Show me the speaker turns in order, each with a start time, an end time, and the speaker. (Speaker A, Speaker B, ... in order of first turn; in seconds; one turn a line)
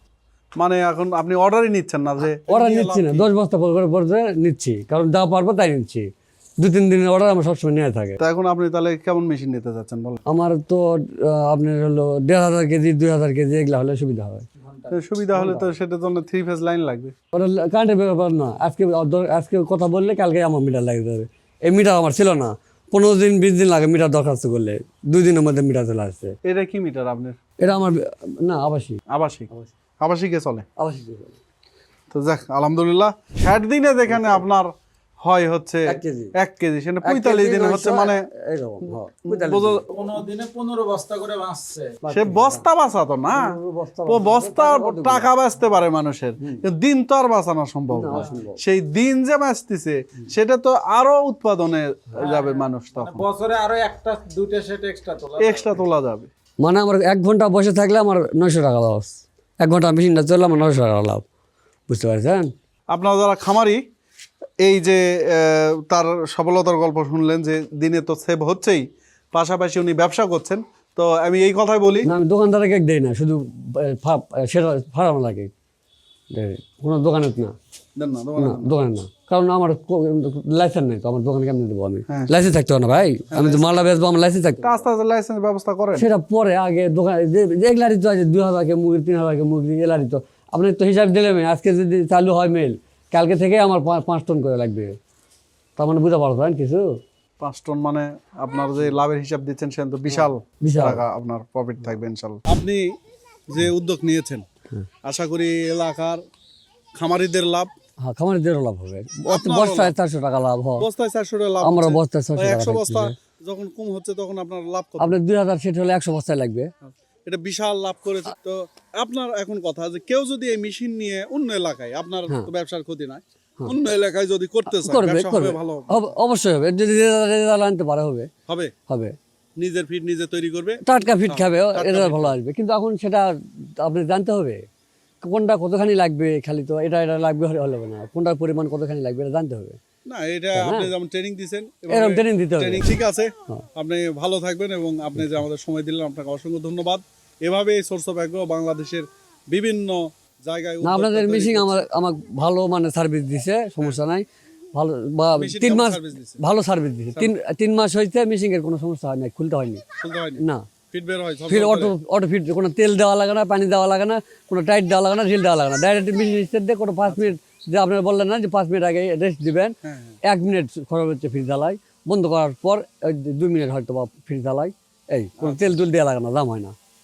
Speaker A: 0.6-3.3
Speaker B: 2.4-6.1
Speaker B: 6.6-8.2
Speaker A: 8.2-10.2
Speaker B: 10.3-14.5
Speaker A: 14.9-17.1
Speaker B: 15.3-15.7
Speaker B: 17.3-26.3
Speaker A: 26.4-27.4
Speaker B: 27.6-29.0
Speaker A: 29.1-29.5
Speaker A: 30.0-30.7
Speaker B: 30.8-31.4
Speaker A: 32.1-34.7
Speaker B: 34.1-34.4
Speaker A: 35.2-38.2
Speaker B: 35.9-36.3
Speaker B: 37.0-39.8
Speaker A: 39.3-39.9
Speaker C: 39.9-42.0
Speaker B: 42.0-42.6
Speaker A: 42.1-43.5
Speaker B: 43.3-45.3
Speaker A: 44.1-53.3
Speaker B: 47.9-48.6
Speaker C: 52.2-55.8
Speaker A: 55.4-56.3
Speaker B: 56.6-61.2
Speaker B: 61.9-62.5
Speaker A: 62.9-63.8
Speaker A: 64.6-72.1
Speaker B: 72.0-75.5
Speaker B: 76.3-77.5
Speaker A: 78.0-78.7
Speaker B: 78.4-84.8
Speaker A: 83.3-83.7
Speaker A: 84.6-86.1
Speaker B: 86.0-95.0
Speaker B: 95.8-96.9
Speaker A: 97.4-102.9
Speaker B: 100.1-101.0
Speaker A: 103.5-104.5
Speaker A: 105.0-106.2
Speaker A: 107.0-107.7
Speaker B: 108.0-110.9
Speaker A: 109.3-110.0
Speaker A: 110.8-115.2
Speaker B: 111.6-113.2
Speaker B: 115.0-116.7
Speaker A: 116.8-126.1
Speaker B: 124.7-128.3
Speaker A: 128.5-128.7
Speaker B: 128.9-129.2
Speaker A: 129.6-132.3
Speaker B: 130.8-134.6
Speaker B: 135.2-139.8
Speaker A: 140.1-151.8
Speaker B: 140.6-140.9
Speaker B: 141.9-142.9
Speaker B: 150.8-159.8
Speaker A: 155.4-156.4
Speaker A: 160.0-161.9
Speaker B: 160.4-160.7
Speaker B: 161.5-176.8
Speaker A: 167.1-167.3
Speaker A: 169.8-170.2